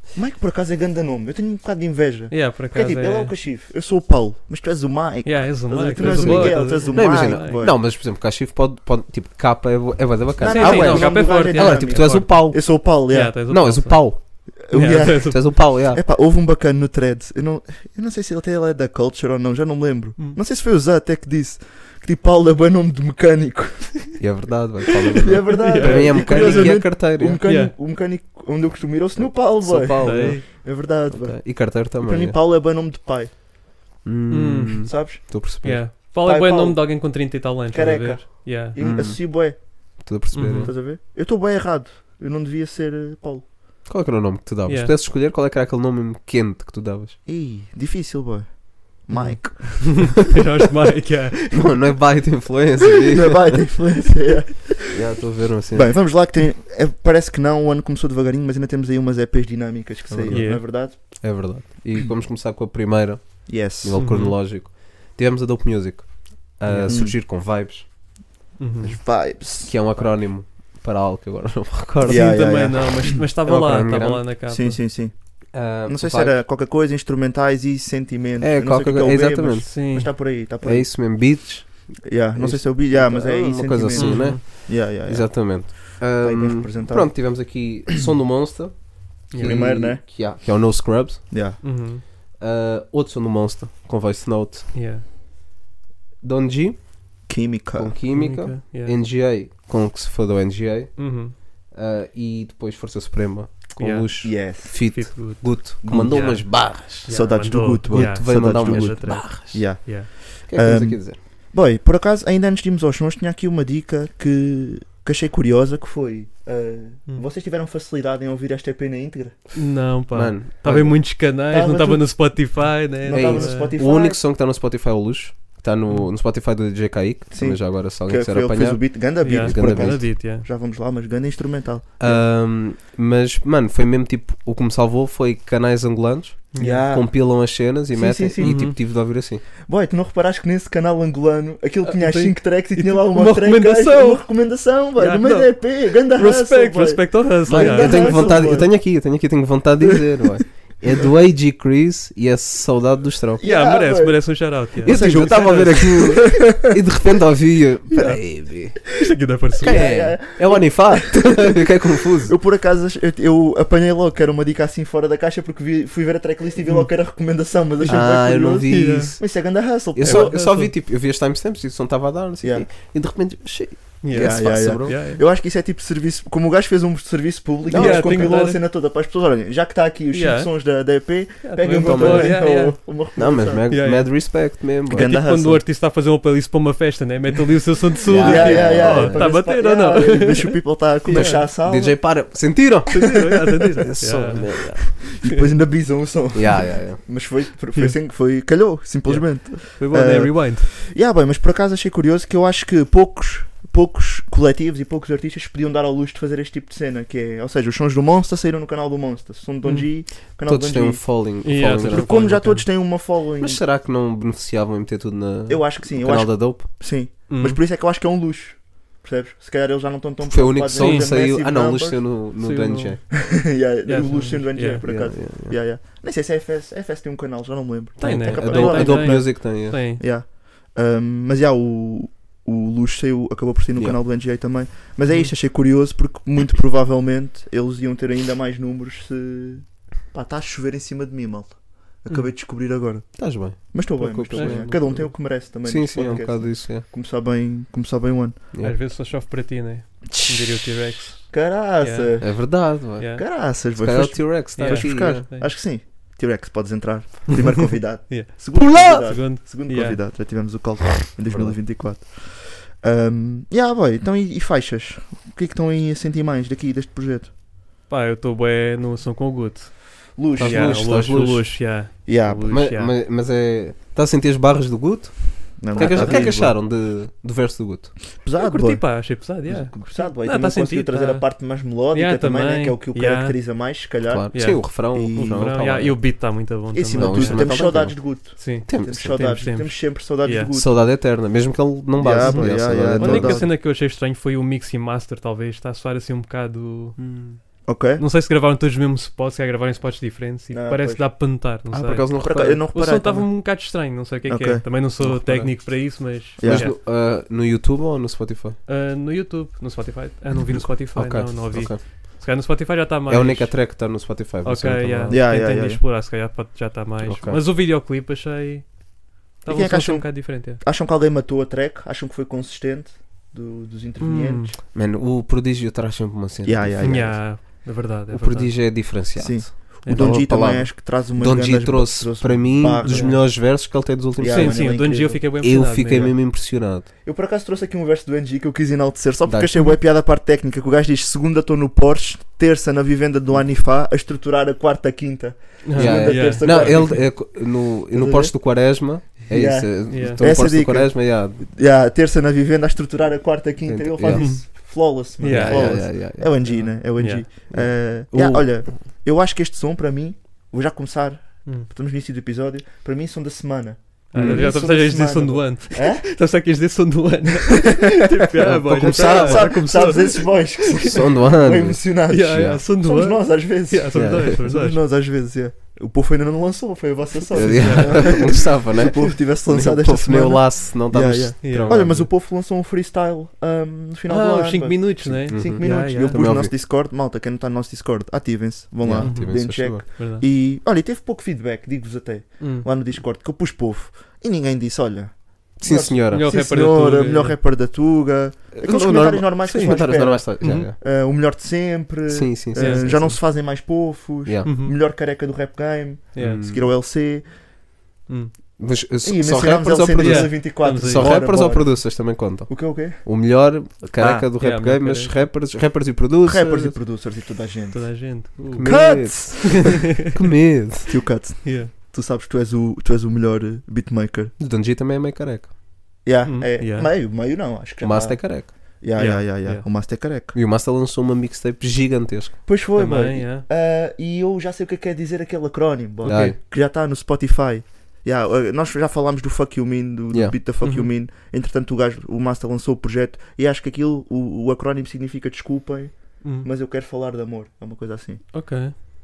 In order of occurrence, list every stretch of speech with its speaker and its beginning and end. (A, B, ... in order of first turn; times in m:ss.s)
0:00.1-0:07.8 A
0:02.3-0:03.3 B
0:05.2-0:07.6 B
0:06.0-0:12.9 C
0:10.4-0:13.3 A
0:10.4-0:15.4 B
0:13.5-0:14.3 C
0:14.6-0:24.2 A
0:15.3-0:16.0 C
0:24.2-0:27.4 C
0:25.1-0:33.3 A
0:25.4-0:27.7 B
0:29.2-0:32.4 C
0:30.0-0:30.4 B
0:34.0-0:35.8 C
0:34.3-0:38.8 B
0:34.8-0:35.2 A
0:36.2-0:36.9 A
0:37.7-0:39.6 A
0:38.8-0:39.3 C
0:40.0-0:40.7 C
0:40.3-0:40.7 B
0:40.5-0:43.5 A
0:43.8-0:47.2 C
0:44.6-0:44.9 B
0:47.2-0:50.2 A
0:49.1-0:49.9 C
0:50.1-0:51.5 B
0:51.5-0:53.6 C
0:53.1-0:55.0 A
0:54.9-0:56.1 C
0:55.7-1:01.2 A
1:00.1-1:07.9 C
1:00.3-1:00.6 B
1:03.4-1:04.0 A
1:03.9-1:04.4 B
1:06.6-1:07.1 B
1:06.8-1:07.2 A
1:08.6-1:09.0 B
1:08.8-1:10.1 A
1:09.6-1:12.4 C
1:12.0-1:13.2 A
1:12.0-1:14.8 B
1:13.4-1:14.2 C
1:14.5-1:21.1 A
1:15.5-1:16.4 C
1:18.4-1:19.7 C
1:19.6-1:20.1 B
1:20.6-1:31.3 C
1:22.0-1:27.5 A
1:23.9-1:24.4 B
1:29.3-1:29.6 B
1:29.4-1:30.0 A
1:31.3-1:31.6 A
1:31.6-1:32.0 B
1:32.4-1:34.7 C
1:34.7-1:35.0 B
1:36.2-1:37.1 C
1:37.2-1:38.0 A
1:37.8-1:47.1 C
1:38.1-1:38.9 B
1:41.0-1:41.3 B
1:43.8-1:50.1 B
1:44.2-1:45.0 A
1:45.8-1:59.5 A
1:47.9-1:49.9 C
1:50.5-1:51.2 C
1:59.5-2:03.8 B
2:00.1-2:01.1 C
2:01.5-2:04.2 A
2:03.1-2:10.1 C
2:07.3-2:12.2 A
2:09.2-2:10.4 B
2:12.0-2:19.4 C
2:16.5-2:16.8 B
2:16.6-2:17.3 A
2:17.9-2:18.9 A
2:18.4-2:18.8 B
2:19.6-2:28.7 A
2:21.8-2:24.2 B
2:25.0-2:28.5 B
2:27.5-2:33.4 C
2:33.4-2:36.7 A
2:33.4-2:36.2 B
2:34.8-2:38.8 C
2:38.9-2:39.9 B
2:39.6-2:42.3 C
2:39.6-2:41.6 A
2:42.2-2:50.4 A
2:47.8-2:49.3 C
2:48.7-2:49.2 B
2:49.9-2:55.0 C
2:50.0-2:50.7 B
2:52.4-2:52.7 A
2:54.0-2:55.2 B
2:54.1-3:03.7 A
2:57.7-2:58.4 C
2:57.7-2:58.6 B
3:00.1-3:00.5 B
3:01.4-3:02.8 B
3:01.8-3:02.5 C
3:03.2-3:05.1 C
3:03.7-3:11.5 B
3:04.9-3:05.6 A
3:08.0-3:09.3 C
3:08.1-3:12.2 A
3:11.1-3:15.0 C
3:12.9-3:15.4 B
3:13.0-3:13.9 A
3:15.0-3:33.6 A
3:16.3-3:17.0 C
3:19.0-3:20.7 B
3:29.6-3:29.9 B
3:30.3-3:32.7 C
3:31.4-3:32.6 B
3:33.4-3:36.7 C
3:35.5-3:42.1 A
3:37.3-3:37.6 B
3:40.3-3:43.0 C
3:40.7-3:41.1 B
3:42.4-3:43.2 B
3:43.1-4:08.4 A
3:43.8-3:44.8 B
3:44.8-3:45.6 C
3:48.0-3:50.0 B
3:48.0-3:49.8 C
3:55.1-3:55.3 B
4:03.2-4:06.8 C
4:04.3-4:04.9 B
4:08.6-4:12.3 B
4:10.1-4:27.3 A
4:12.2-4:15.2 C
4:13.0-4:13.2 B
4:14.6-4:15.5 B
4:18.1-4:20.0 B
4:18.6-4:19.0 C
4:21.3-4:21.6 C
4:27.9-4:32.9 B
4:30.2-4:30.9 A
4:30.4-4:31.7 C
4:32.0-4:32.5 A
4:32.5-4:38.0 C
4:35.6-4:36.6 A
4:35.7-4:36.4 B
4:38.2-4:45.5 A
4:38.4-4:43.4 B
4:44.1-4:46.0 C
4:44.3-4:50.5 B
4:46.7-4:50.7 A
4:47.0-4:48.0 C
4:48.6-4:49.4 C
4:50.5-4:53.4 C
4:52.0-4:53.5 A
4:52.2-4:57.0 B
4:57.0-4:57.4 C
4:57.6-4:58.0 A
4:58.0-5:06.8 B
5:00.5-5:01.1 A
5:01.7-5:02.6 C
5:02.1-5:03.5 A
5:04.2-5:04.6 A
5:05.0-5:08.6 C
5:06.4-5:06.7 A
5:08.7-5:13.9 B
5:10.5-5:11.8 C
5:13.1-5:15.2 C
5:14.4-5:18.8 B
5:15.1-5:15.8 A
5:17.0-5:17.4 C
5:19.4-5:20.6 B
5:19.5-5:24.6 A
5:24.0-5:24.5 B
5:24.7-5:34.8 C
5:26.4-5:27.2 A
5:26.8-5:28.6 B
5:29.1-5:33.3 A
5:29.8-5:30.3 B
5:32.9-5:33.2 B
5:34.2-5:35.2 A
5:34.2-5:36.2 B
5:35.4-5:36.9 C
5:37.0-5:47.3 A
5:39.2-5:39.6 C
5:45.6-5:47.0 B
5:45.8-5:51.4 C
5:47.9-5:48.4 A
5:49.3-6:06.0 A
5:49.9-5:50.2 B
5:53.6-5:54.6 C
5:54.1-5:54.4 B
5:55.2-5:57.2 B
5:55.2-5:56.6 C
5:57.5-5:58.6 C
6:04.1-6:10.4 B
6:04.1-6:04.5 C
6:07.5-6:08.1 A
6:08.4-6:09.5 C
6:08.8-6:47.2 A
6:10.8-6:12.6 C
6:12.1-6:14.8 B
6:13.9-6:14.4 C
6:17.3-6:22.1 C
6:17.4-6:18.3 B
6:21.4-6:21.8 B
6:24.1-6:26.3 B
6:25.3-6:26.5 C
6:28.8-6:29.8 C
6:29.0-6:30.2 B
6:32.4-6:32.7 B
6:35.6-6:36.3 C
6:36.1-6:37.4 B
6:38.5-6:40.7 C
6:39.4-6:39.8 B
6:40.4-6:40.7 B
6:42.1-6:43.2 C
6:42.5-6:43.2 B
6:44.4-6:44.8 B
6:46.1-6:46.4 B
6:46.2-6:46.7 C
6:48.1-6:48.3 B
6:48.6-6:56.8 C
6:49.0-6:53.0 A
6:50.0-6:51.2 B
6:54.0-6:55.2 B
6:56.2-6:59.8 A
6:57.7-6:59.8 B
6:58.5-7:00.9 C
7:00.9-7:04.3 A
7:01.4-7:01.7 B
7:04.4-7:05.5 C
7:06.0-7:10.3 A
7:06.2-7:06.9 B
7:07.8-7:08.5 C
7:08.9-7:09.6 B
7:10.3-7:12.4 C
7:12.4-7:28.2 A
7:12.7-7:13.4 B
7:16.0-7:16.4 C
7:16.0-7:16.4 B
7:20.6-7:20.9 B
7:26.2-7:26.5 B
7:28.3-7:28.7 B